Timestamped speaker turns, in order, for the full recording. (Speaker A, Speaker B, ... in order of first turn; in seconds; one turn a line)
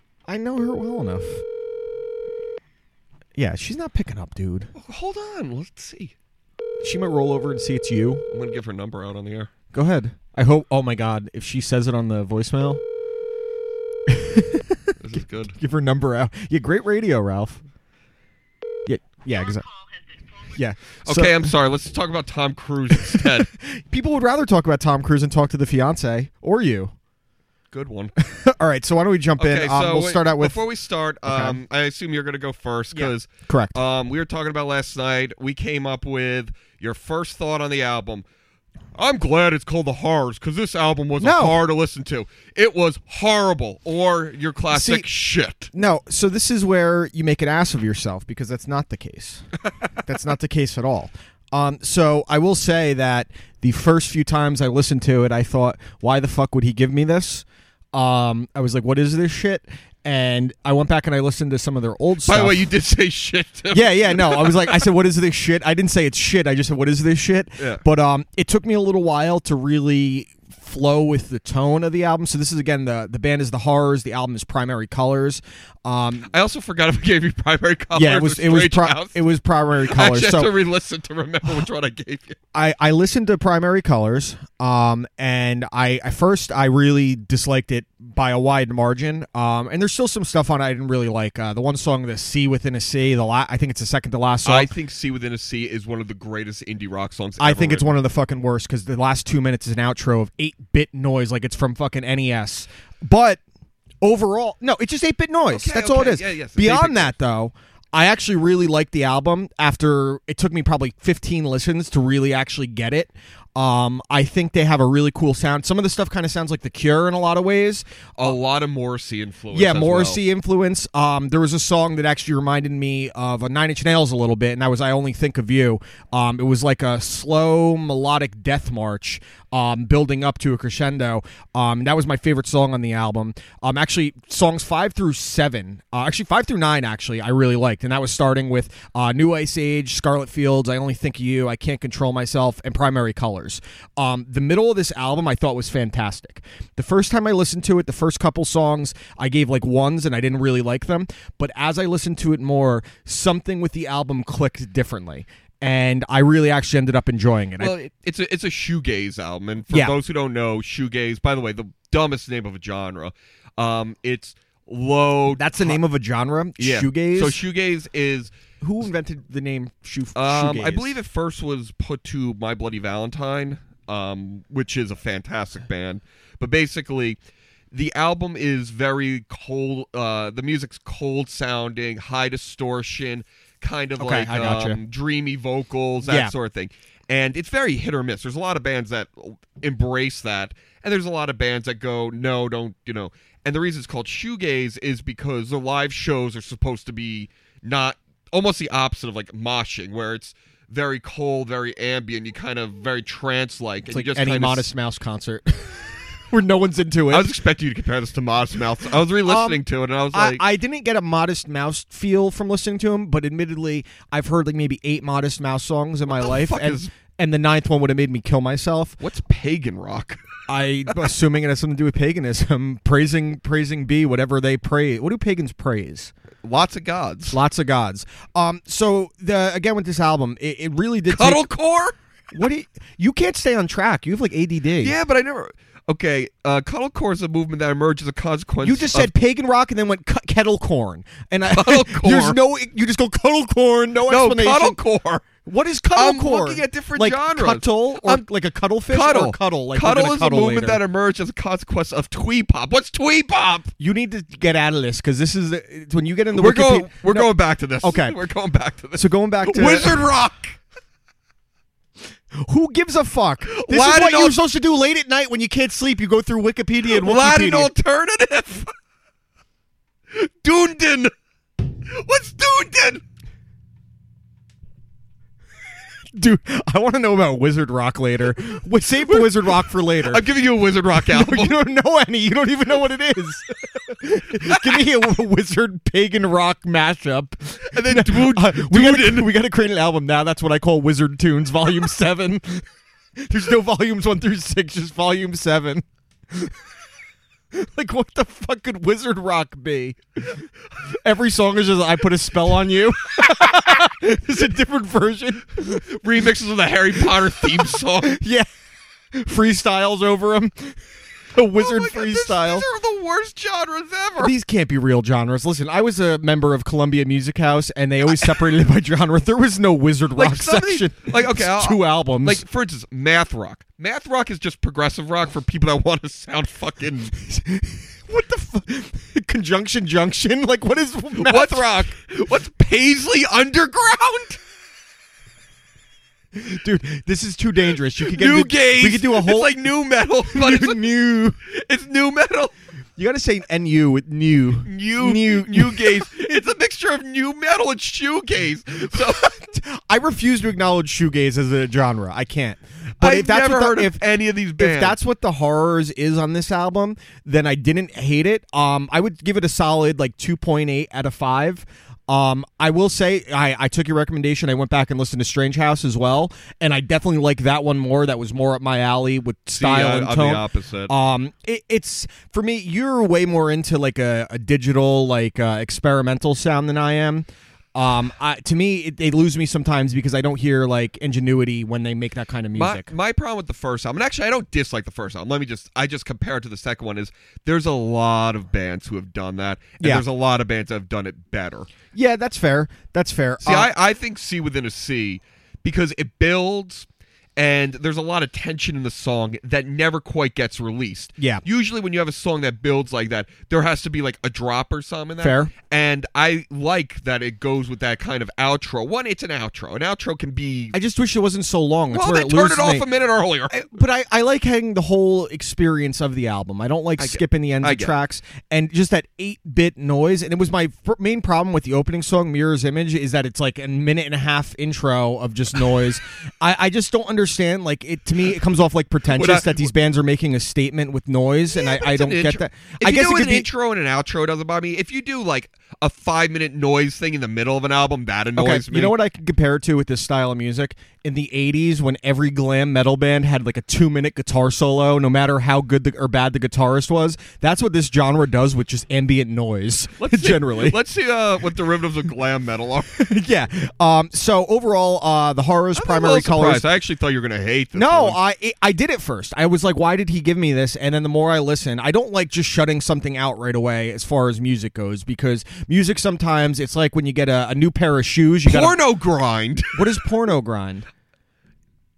Speaker A: 0.3-1.4
Speaker A: 3.4-4.7
Speaker B: 4.7-6.1
Speaker A: 6.8-8.2
Speaker B: 8.3-9.5
Speaker A: 9.7-12.8
Speaker A: 14.1-17.6
Speaker B: 15.0-15.6
Speaker A: 18.9-19.7
Speaker A: 20.5-21.5
Speaker B: 21.0-23.5
Speaker A: 22.9-26.9
Speaker B: 27.7-28.1
Speaker A: 28.2-30.6
Speaker B: 29.4-38.2
Speaker A: 31.2-31.6
Speaker A: 32.9-33.8
Speaker B: 38.9-45.7
Speaker A: 41.2-41.6
Speaker A: 44.7-45.1
Speaker A: 45.7-49.5
Speaker A: 50.0-62.6
Speaker B: 62.2-64.9
Speaker A: 63.7-76.3
Speaker B: 67.6-67.8
Speaker B: 76.2-79.2
Speaker A: 77.9-80.5
Speaker B: 79.8-82.4
Speaker A: 82.5-94.7
Speaker B: 94.4-97.9
Speaker A: 97.4-103.4
Speaker A: 104.0-117.8
Speaker B: 105.5-107.1
Speaker B: 118.2-120.2
Speaker A: 119.5-157.7
Speaker B: 157.6-165.8
Speaker A: 159.7-160.0
Speaker A: 165.3-167.4
Speaker B: 166.6-168.3
Speaker A: 168.6-171.0
Speaker B: 170.1-177.2
Speaker B: 177.7-204.7
Speaker A: 184.0-184.8
Speaker A: 186.1-186.3
Speaker A: 203.9-207.3
Speaker B: 207.1-210.4
Speaker A: 209.2-219.0
Speaker B: 216.1-216.9
Speaker B: 219.0-220.3
Speaker A: 220.5-226.1
Speaker B: 226.4-227.4
Speaker A: 227.3-231.5
Speaker B: 231.1-232.0
Speaker A: 232.3-234.9
Speaker B: 234.8-239.1
Speaker A: 238.6-244.8
Speaker B: 241.5-242.4
Speaker B: 244.1-245.2
Speaker A: 245.4-250.8
Speaker B: 245.9-248.2
Speaker B: 248.9-253.7
Speaker A: 253.8-258.2
Speaker B: 256.3-260.6
Speaker A: 258.9-260.1
Speaker A: 262.3-267.7
Speaker B: 263.5-264.4
Speaker B: 266.8-268.7
Speaker B: 270.1-271.1
Speaker B: 271.8-273.0
Speaker A: 276.1-280.2
Speaker B: 279.0-281.6
Speaker A: 281.0-292.7
Speaker B: 284.4-284.8
Speaker B: 287.7-289.3
Speaker A: 293.2-296.5
Speaker A: 297.5-305.9
Speaker B: 305.6-308.2
Speaker A: 307.4-308.5
Speaker A: 309.1-310.8
Speaker A: 311.3-312.7
Speaker B: 311.5-314.3
Speaker A: 314.2-322.4
Speaker B: 318.1-318.4
Speaker B: 320.1-327.1
Speaker A: 327.2-331.9
Speaker B: 331.1-334.4
Speaker A: 336.3-339.6
Speaker B: 338.0-340.9
Speaker A: 340.3-341.4
Speaker B: 341.4-342.5
Speaker A: 343.0-346.0
Speaker B: 344.6-349.4
Speaker A: 349.1-354.0
Speaker B: 353.0-354.9
Speaker A: 354.6-382.9
Speaker B: 369.5-370.9
Speaker B: 382.5-391.7
Speaker A: 391.9-393.7
Speaker B: 393.4-410.7
Speaker A: 401.2-401.4
Speaker A: 405.2-405.5
Speaker A: 410.7-412.9
Speaker B: 411.9-413.7
Speaker A: 413.5-433.5
Speaker B: 417.0-417.9
Speaker B: 429.1-429.7
Speaker B: 431.5-438.9
Speaker A: 438.4-450.8
Speaker B: 450.0-452.9
Speaker A: 452.9-456.6
Speaker B: 455.7-458.2
Speaker A: 457.7-468.8
Speaker B: 468.4-470.0
Speaker A: 469.7-470.9